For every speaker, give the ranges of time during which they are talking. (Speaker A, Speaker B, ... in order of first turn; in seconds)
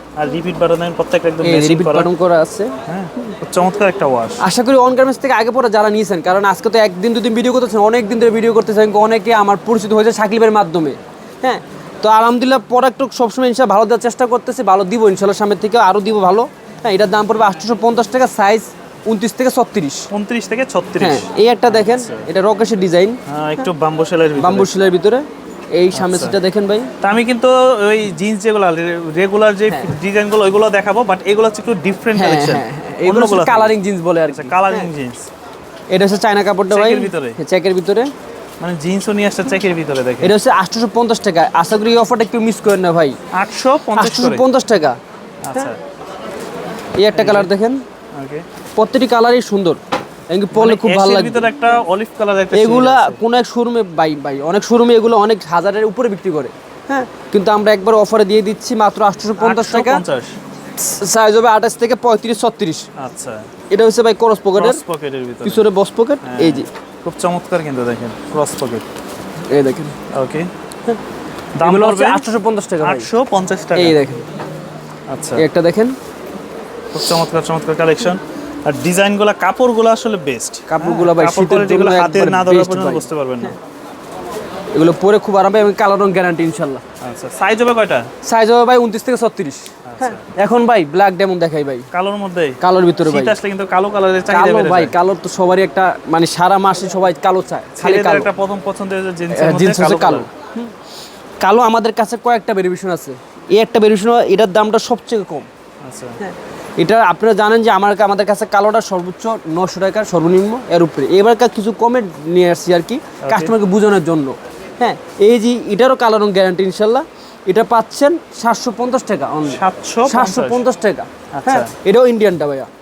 Speaker A: 0.1-2.1, 2.9-4.4, 20.1-22.3, 23.2-24.7, 25.9-26.4, 27.0-33.8, 34.3-35.2, 36.7-37.4, 38.6-40.3, 43.4-44.4, 45.4-45.8, 47.1-47.5, 48.1-48.4, 50.5-53.2, 59.4-60.4, 63.0-63.5, 64.5-65.7, 66.2-68.8, 70.1-70.5, 71.5-74.0, 75.1-75.4, 76.9-83.6, 87.0-88.1, 89.8-90.3, 91.9-94.9, 97.7-100.3, 105.8-106.2, 113.2-113.5, 119.5-120.6, 121.3-121.7
Speaker B: 1.4-2.7, 4.4-20.1, 21.0-23.2, 24.4-26.9, 29.7-29.9, 32.1-34.9, 35.9-38.1, 40.2-43.2, 44.0-45.0, 47.0-47.8, 48.8-51.5, 52.5-60.0, 60.8-62.9, 63.7-64.8, 65.4-66.7, 69.5-69.9, 71.6-73.1, 73.8-74.2, 75.4-76.0, 80.7-83.5, 84.7-86.8, 88.2-91.9, 92.6-93.4, 94.3-98.3, 99.3-100.7, 101.4-105.5, 106.2-122.7